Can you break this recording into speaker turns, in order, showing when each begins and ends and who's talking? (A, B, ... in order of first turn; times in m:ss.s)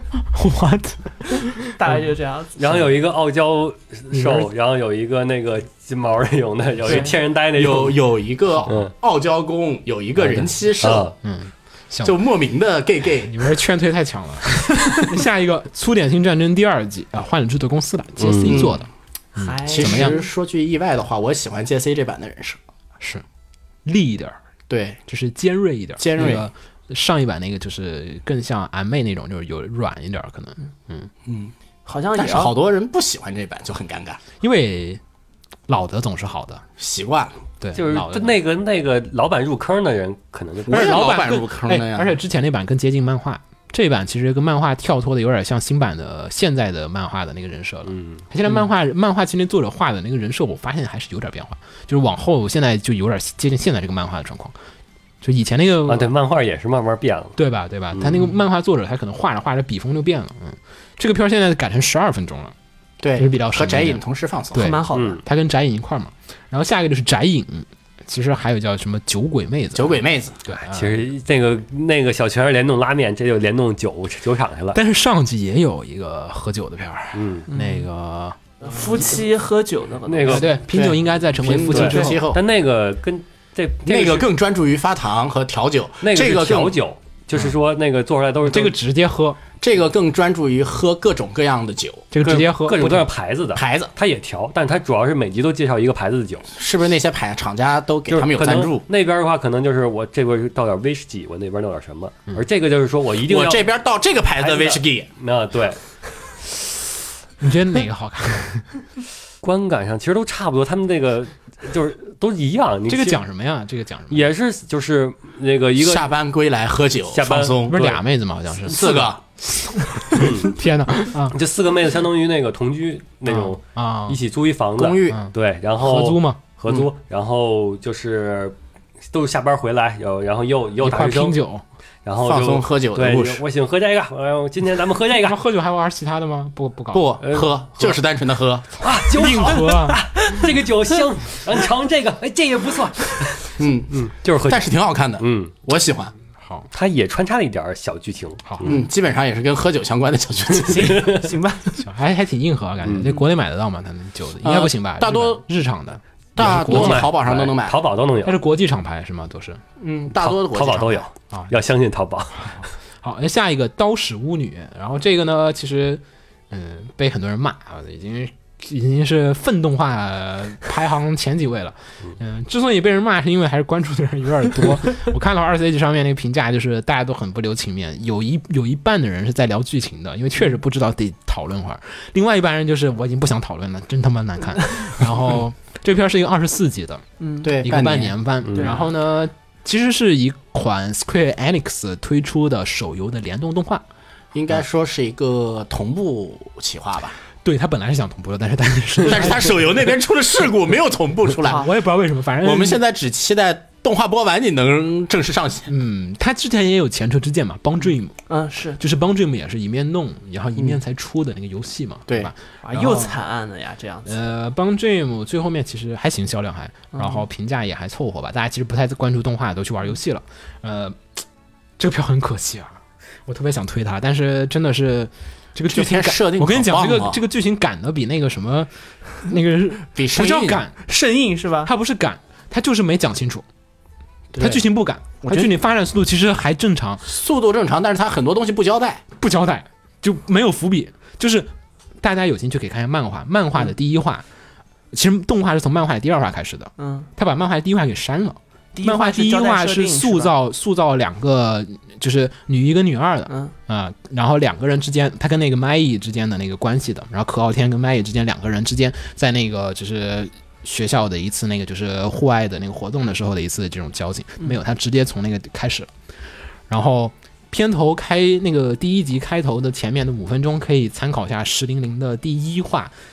0:00.2-0:02.0 A
0:01.8-0:02.8 B
0:02.6-0:08.0 C
0:04.1-0:04.5 A
0:06.9-0:07.1 B
0:07.5-0:11.1 D
0:08.5-0:08.8 A
0:10.2-0:10.5 A
0:10.8-0:11.1 C
0:11.2-0:12.2 A
0:12.0-0:13.3 D
0:13.2-0:20.2 A
0:18.2-0:18.6 C
0:18.5-0:18.8 D
0:19.4-0:20.3 B
0:19.7-0:22.6 D
0:23.8-0:24.4 A
0:24.7-0:25.0 D
0:25.1-0:31.1 A
0:26.0-0:26.5 D
0:31.3-0:31.5 D
0:31.9-0:32.5 B
0:32.2-0:34.2 D
0:34.4-0:35.0 A
0:35.7-0:36.6 A
0:36.8-0:37.4 D
0:37.6-0:38.4 A
0:37.8-0:41.2 C
0:40.7-0:42.2 D
0:40.7-0:54.5 A
0:47.9-0:48.2 C
0:55.2-0:56.1 A
0:55.9-0:57.4 C
0:57.4-1:02.5 A
0:57.9-0:58.3 C
1:03.0-1:04.7 D
1:03.2-1:04.0 A
1:04.5-1:11.0 A
1:04.6-1:05.2 B
1:04.9-1:05.2 C
1:09.8-1:10.4 D
1:10.7-1:14.8 C
1:14.7-1:18.4 A
1:17.2-1:17.5 C
1:17.5-1:17.9 B
1:18.6-1:20.5 B
1:20.1-1:20.5 C
1:20.2-1:22.2 A
1:20.7-1:22.4 D
1:21.7-1:24.3 C
1:23.8-1:26.8 D
1:26.0-1:28.8 C
1:28.4-1:29.4 A
1:29.6-1:32.1 D
1:32.1-1:33.1 A
1:32.2-1:36.5 C
1:33.5-1:33.9 D
1:36.6-1:38.8 D
1:38.1-1:43.7 C
1:43.2-1:45.1 D
1:44.4-1:45.8 C
1:47.4-1:48.7 A
1:49.4-1:53.2 C
1:52.9-1:54.3 A
1:54.1-1:56.1 C
1:55.8-1:57.8 D
1:57.1-1:58.0 C
1:57.7-2:01.4 A
1:58.6-1:59.2 D
2:00.2-2:00.5 C
2:01.3-2:08.5 C
2:03.2-2:04.2 A
2:04.8-2:05.2 D
2:05.1-2:06.4 A
2:09.1-2:11.4 C
2:10.8-2:11.6 A
2:12.0-2:15.4 C
2:12.2-2:13.4 D
2:15.2-2:17.1 A
2:16.9-2:18.6 D
2:17.2-2:18.0 C
2:18.8-2:25.5 C
2:19.1-2:20.0 A
2:23.6-2:26.1 D
2:26.4-2:26.7 A
2:26.7-2:28.8 C
2:28.5-2:28.7 A
2:28.6-2:31.1 D
2:30.7-2:31.3 C
2:30.8-2:31.8 B
2:31.8-2:37.2 A
2:32.8-2:33.2 C
2:34.4-2:35.4 D
2:36.4-2:37.8 D
2:36.4-2:38.4 C
2:38.2-2:39.6 A
2:39.8-2:41.1 D
2:40.2-2:42.6 C
2:42.4-3:07.0 A
3:07.2-3:07.5 B
3:07.4-3:08.2 D
3:07.6-3:13.8 A
3:08.4-3:08.7 C
3:08.5-3:08.9 B
3:14.3-3:17.2 D
3:17.4-3:19.9 A
3:19.1-3:21.6 D
3:21.5-3:22.8 A
3:22.4-3:25.7 D
3:25.7-3:28.2 A
3:28.3-3:28.8 B
3:28.8-3:33.2 A
3:32.6-3:34.2 B
3:34.1-3:41.0 A
3:36.9-3:37.2 B
3:41.8-3:48.7 A
3:45.7-3:47.2 D
3:49.2-3:50.8 A
3:49.9-3:50.6 D
3:50.9-3:51.7 B
3:51.6-3:53.4 A
3:54.3-3:54.6 D
3:54.4-3:57.1 A
3:55.2-3:55.5 D
3:57.0-3:59.0 D
3:59.2-4:04.2 A
4:04.9-4:25.9 A
4:06.8-4:07.1 B
4:08.8-4:10.3 B
4:13.3-4:13.5 B
4:26.7-4:32.9 A